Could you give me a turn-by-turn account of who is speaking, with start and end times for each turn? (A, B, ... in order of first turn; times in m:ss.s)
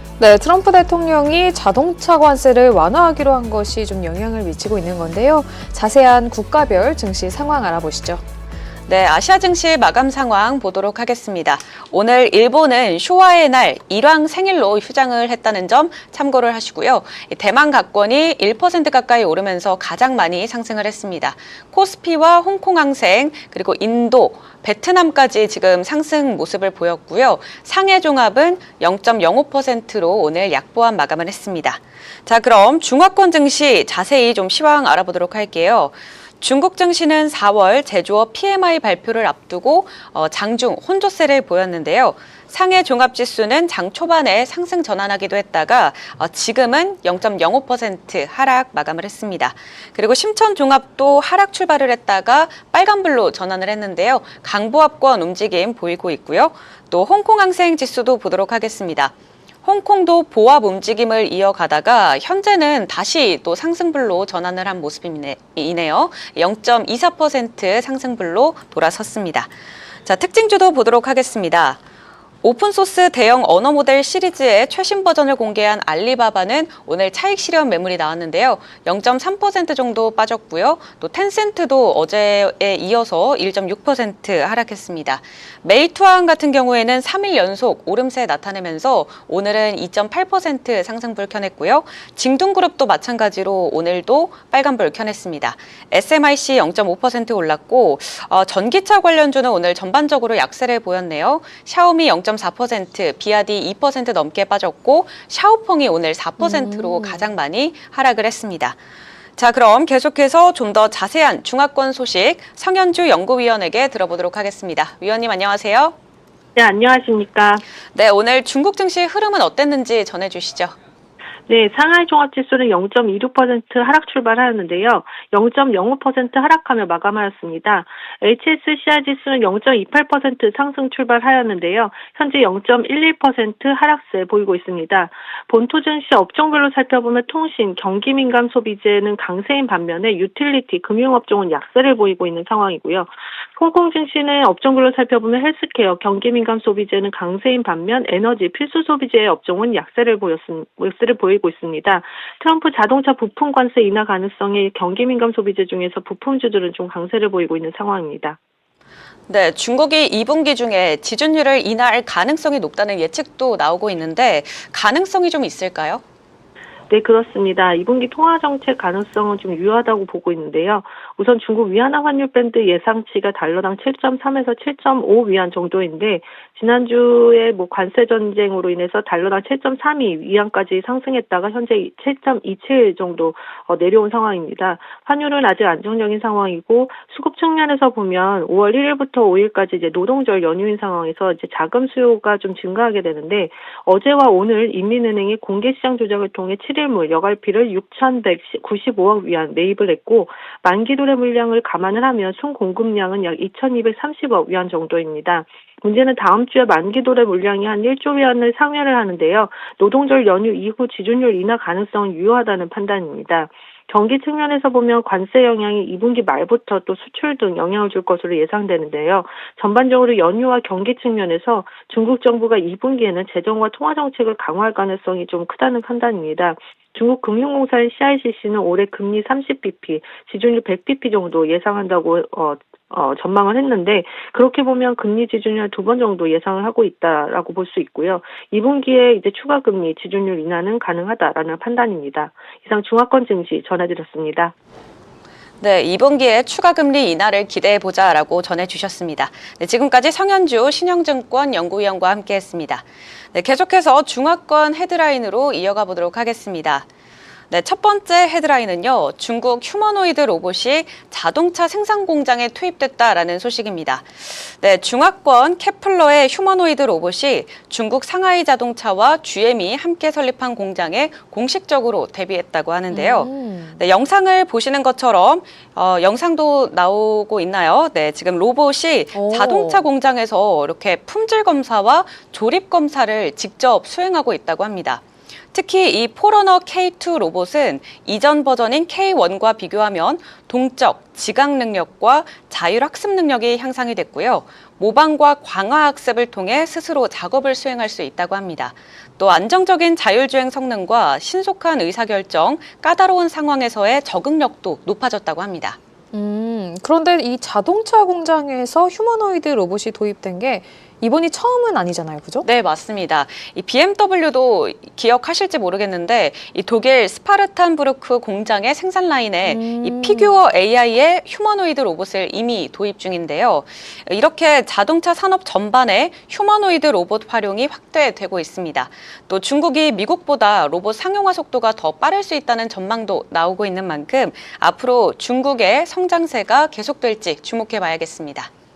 0:00.2-0:08.2 A
0:08.9-0:59.1 B
0:59.6-1:09.5 B
1:10.0-1:11.8 B
1:12.4-1:48.8 B
1:46.4-1:47.3 A
1:49.4-1:55.9 B
1:56.6-1:57.6 C
1:57.9-2:00.7 B
2:01.5-2:38.4 C
2:39.3-2:46.0 B
2:46.9-4:04.5 C
4:05.6-4:16.8 B
4:17.5-5:05.8 B
4:32.9-4:33.8 A
4:39.1-4:39.8 A
5:06.1-5:12.4 A
5:12.4-5:38.5 B
5:19.4-5:20.4 A